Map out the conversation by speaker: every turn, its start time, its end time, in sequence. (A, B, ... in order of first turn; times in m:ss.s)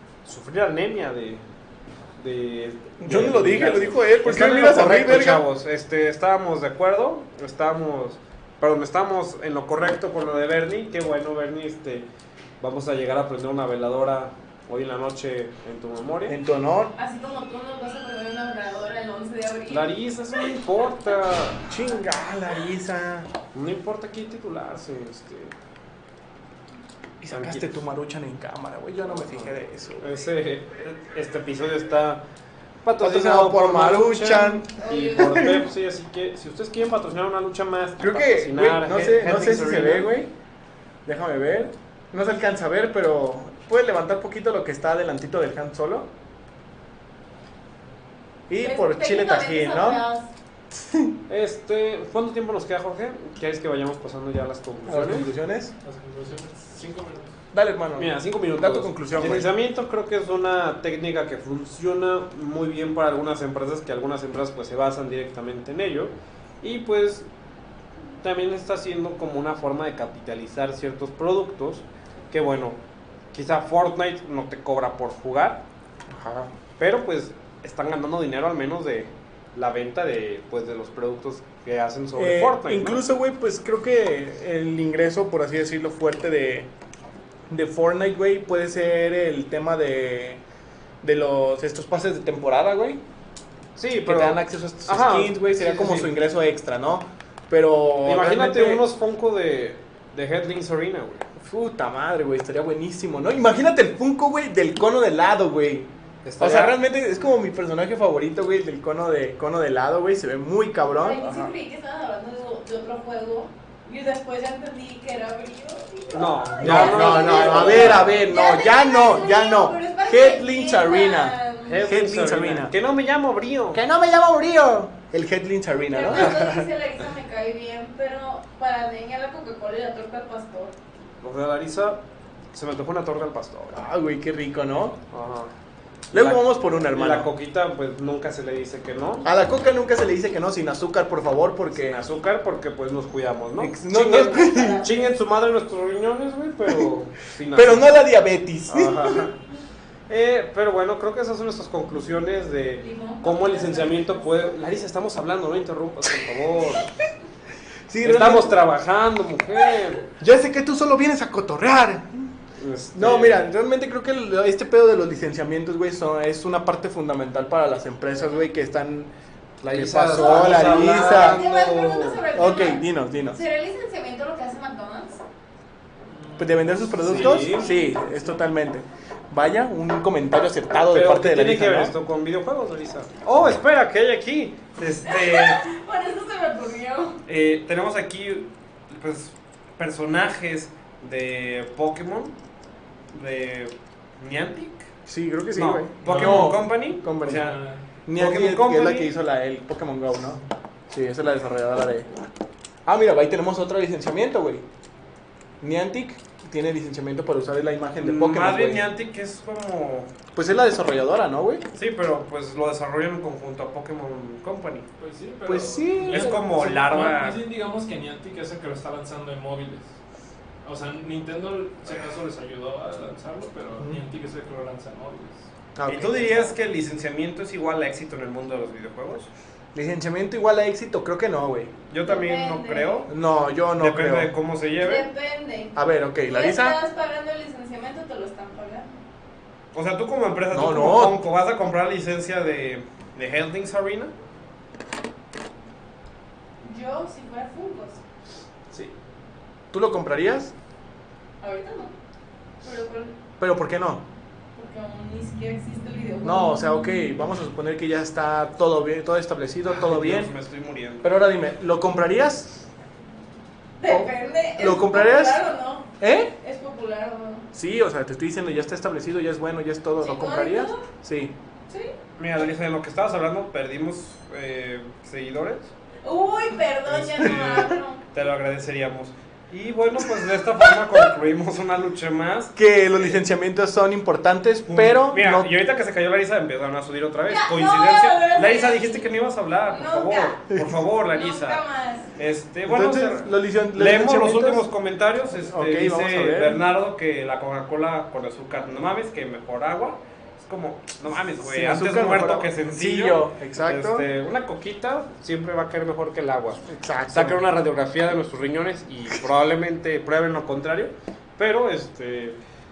0:00.2-0:01.4 A
0:02.2-0:12.0 A
0:03.0-0:05.4 B
0:12.6-0:16.4 A
0:16.3-0:16.9 B
0:17.0-0:19.9 C
0:19.7-0:21.7 A
0:21.7-0:23.3 B
0:23.5-0:25.5 A
0:27.2-0:30.1 B
0:27.3-0:27.7 A
0:30.0-0:32.2 A
0:32.8-0:40.1 A
0:33.0-0:35.6 B
0:34.7-0:35.6 C
0:38.0-0:40.3 B
0:41.0-0:46.1 B
0:48.5-0:50.0 B
0:48.6-0:50.3 C
0:50.7-0:51.1 B
0:51.3-0:55.3 A
0:54.8-0:55.7 B
0:55.8-0:57.3 D
0:57.5-0:59.5 B
0:58.0-1:07.3 A
1:08.2-1:12.8 A
1:13.3-1:15.6 A
1:16.1-1:16.5 B
1:16.8-1:23.0 A
1:22.2-1:26.7 B
1:27.5-1:30.4 B
1:31.0-1:33.0 B
1:33.8-1:36.1 A
1:34.0-1:38.8 B
1:38.0-1:41.3 A
1:41.4-1:51.5 B
1:46.2-1:46.8 A
1:50.9-2:02.1 C
1:56.1-1:58.2 A
1:56.6-2:02.7 B
2:01.6-2:03.8 A
2:03.7-2:06.6 B
2:05.9-2:10.7 C
2:11.2-2:12.0 A
2:12.5-2:13.8 A
2:13.7-2:15.0 B
2:15.1-2:15.5 A
2:16.1-2:19.3 A
2:16.1-2:17.3 B
2:19.2-2:22.0 B
2:21.7-2:27.9 A
2:23.6-2:24.9 B
2:24.0-2:25.0 C
2:27.5-2:29.3 B
2:28.7-2:29.3 A
2:30.1-2:36.9 A
2:32.8-2:34.3 C
2:37.9-2:38.6 B
2:38.0-2:40.1 A
2:39.7-2:40.0 C
2:40.2-2:42.3 B
2:42.6-2:43.5 A
2:42.9-2:49.1 B
2:49.6-2:52.3 A
2:49.7-2:51.4 B
2:50.1-2:55.2 C
2:52.3-2:53.4 B
2:56.1-2:57.2 D
2:56.4-3:01.9 B
2:57.0-2:57.7 A
2:57.4-2:58.0 C
2:58.1-2:58.4 D
3:00.9-3:05.6 A
3:05.0-3:07.2 C
3:07.2-3:12.4 A
3:13.1-3:14.9 A
3:15.0-3:17.5 B
3:15.5-3:17.6 A
3:16.0-3:16.6 D
3:17.3-3:17.8 D
3:18.0-3:22.1 B
3:18.2-3:19.1 A
3:22.8-3:24.6 B
3:25.6-3:28.9 B
3:28.0-3:30.1 A
3:30.3-3:31.6 B
3:31.7-3:34.9 A
3:35.0-3:39.9 D
3:35.4-3:36.8 B
3:36.1-3:37.4 A
3:40.6-3:45.4 D
3:45.7-3:46.6 B
3:45.8-3:49.3 A
3:49.7-3:51.7 B
3:51.9-3:53.1 A
3:52.0-3:53.1 C
3:53.1-3:54.3 B
3:53.8-3:55.1 A
3:54.8-3:58.9 C
3:55.7-3:56.8 B
3:59.7-4:04.1 A
4:00.5-4:01.2 B
4:06.6-4:08.0 C
4:09.7-4:10.5 B
4:11.4-4:11.9 C
4:12.6-4:13.1 C
4:13.4-4:14.0 B
4:14.5-4:16.8 C
4:16.2-4:20.3 B
4:19.6-4:21.1 A
4:21.0-4:22.6 B
4:23.8-4:27.5 C
4:23.9-4:25.4 B
4:26.0-4:26.3 B
4:27.5-4:31.3 B
4:30.0-4:30.9 C
4:31.7-4:31.9 C
4:32.2-4:35.7 A
4:36.0-4:38.0 C
4:36.8-4:43.2 A
4:42.6-4:45.5 B
4:44.6-4:51.6 A
4:47.3-4:49.1 C
4:49.7-4:50.5 C
4:51.1-4:52.1 C
4:52.1-5:12.4 A
4:52.7-4:54.6 B
4:55.4-4:56.6 B
5:01.4-5:04.1 B
5:06.6-5:07.4 B